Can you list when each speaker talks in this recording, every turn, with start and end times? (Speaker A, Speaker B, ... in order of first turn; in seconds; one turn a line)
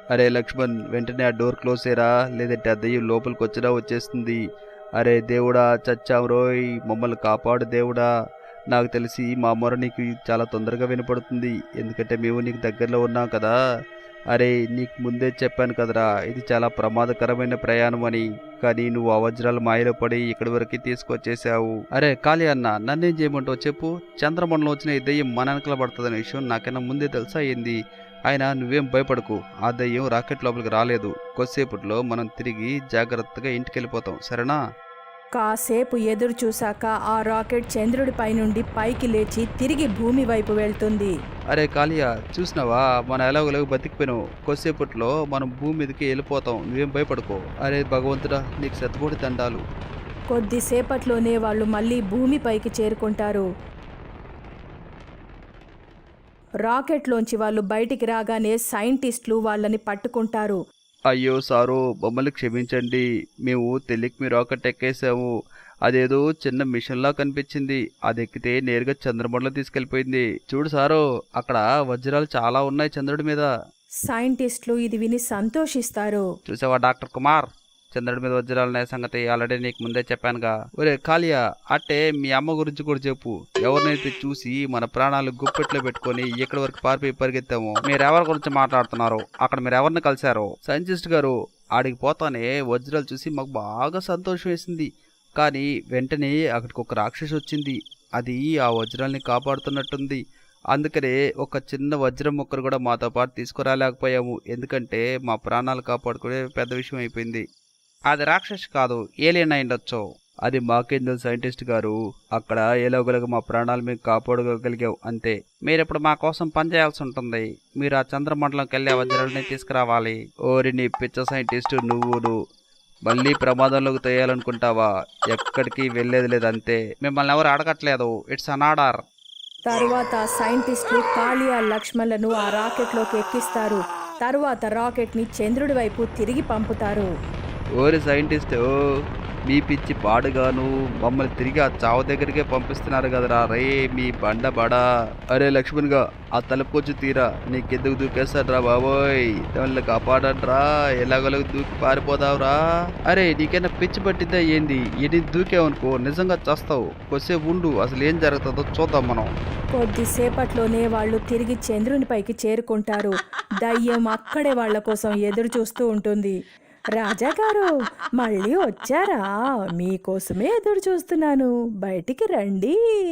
Speaker A: 0.1-4.4
Speaker A: 5.0-8.1
Speaker A: 8.7-13.6
Speaker A: 14.3-27.8
Speaker A: 28.3-34.6
Speaker B: 35.4-41.1
Speaker A: 41.5-49.6
Speaker B: 50.3-53.5
Speaker B: 56.7-60.6
Speaker A: 61.1-65.3
Speaker A: 65.8-73.5
Speaker B: 74.1-76.2
Speaker A: 76.5-100.2
Speaker A: 100.7-107.4
Speaker A: 108.1-122.4
Speaker A: 123.1-129.0
Speaker B: 129.7-137.1
Speaker A: 137.8-138.7
Speaker A: 139.5-159.3
Speaker B: 159.7-166.3
Speaker B: 167.0-167.7
Speaker B: 168.2-169.2
Speaker B: 169.8-172.8